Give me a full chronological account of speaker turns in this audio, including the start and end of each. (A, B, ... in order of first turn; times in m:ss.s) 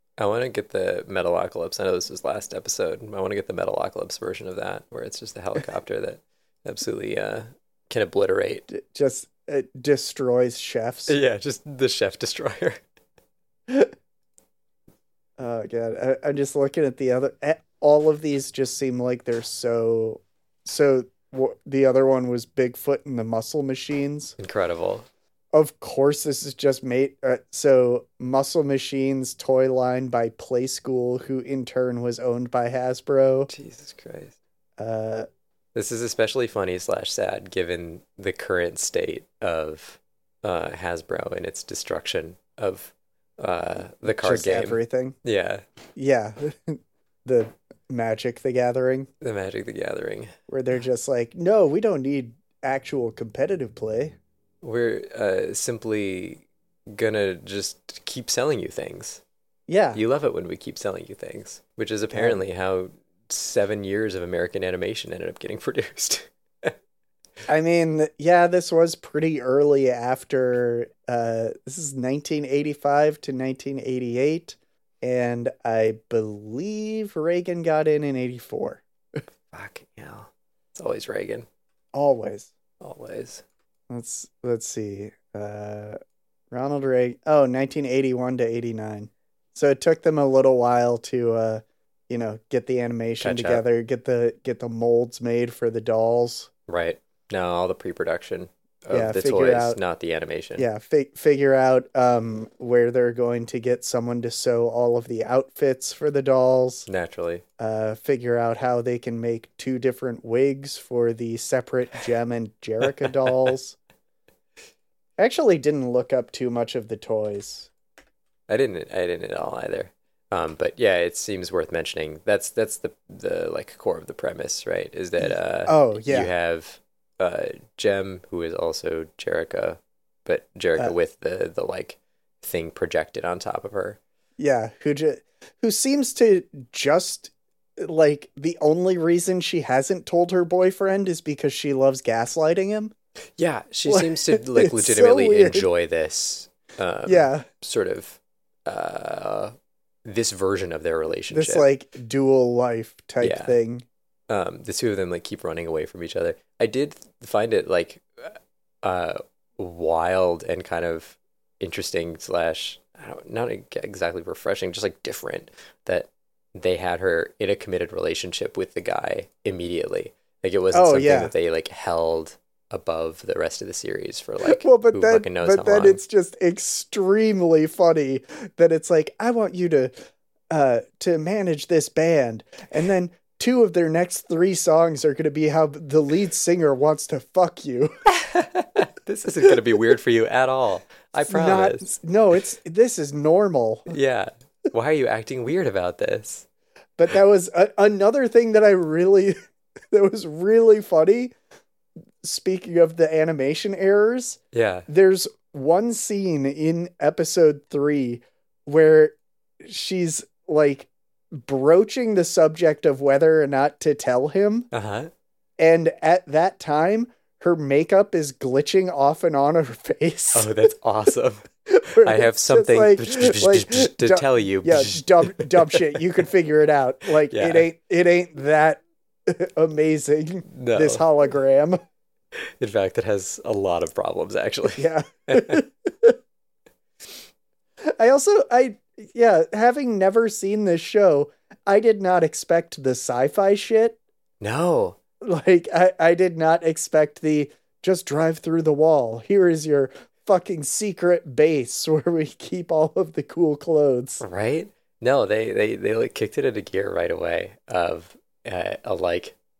0:00.2-0:08.6 A
0:08.7-0:11.2 B
0:11.1-0:12.8 A
0:15.4-0:24.3 B
0:24.4-0:25.1 A
0:25.5-0:33.5 B
0:33.5-0:34.3 A
0:34.8-0:35.3 B
0:35.7-0:45.6 A
0:44.0-0:45.2 B
0:45.9-0:49.1 B
0:49.2-0:50.3 A
0:50.5-0:54.1 B
0:54.6-0:59.2 A
0:59.7-1:00.0 B
0:59.9-1:06.7 A
1:02.1-1:02.4 B
1:07.5-1:19.2 B
1:19.5-1:21.4 A
1:21.9-1:22.5 B
1:22.8-1:23.4 A
1:23.9-1:26.0 B
1:26.5-1:36.5 B
1:33.2-1:33.6 A
1:36.7-1:40.7 A
1:38.9-1:39.8 B
1:40.6-1:46.9 B
1:46.9-1:47.4 A
1:47.6-1:53.8 B
1:55.2-1:57.7 B
1:58.5-2:14.0 A
2:05.2-2:06.3 B
2:14.4-2:22.9 B
2:23.4-2:29.5 A
2:23.9-2:25.7 B
2:27.0-2:27.4 B
2:30.0-2:31.7 A
2:31.3-2:33.8 B
2:33.2-2:33.6 A
2:34.3-2:56.0 A
2:50.7-2:51.3 B
2:54.4-2:59.9 B
3:00.5-3:07.9 B
3:08.1-3:11.9 A
3:11.2-3:13.9 B
3:13.9-3:16.4 A
3:17.0-3:19.4 B
3:19.9-3:21.3 B
3:22.2-3:34.7 B
3:24.5-3:24.9 A
3:34.7-3:35.1 A
3:35.6-3:40.6 B
3:40.3-3:41.4 A
3:41.7-3:51.8 B
3:42.0-3:46.0 A
3:47.3-3:47.7 A
3:50.5-3:51.0 A
3:52.3-3:55.6 A
3:54.8-3:56.2 B
3:58.0-4:04.0 B
4:04.4-4:05.0 A
4:05.2-4:14.2 B
4:14.2-4:19.4 A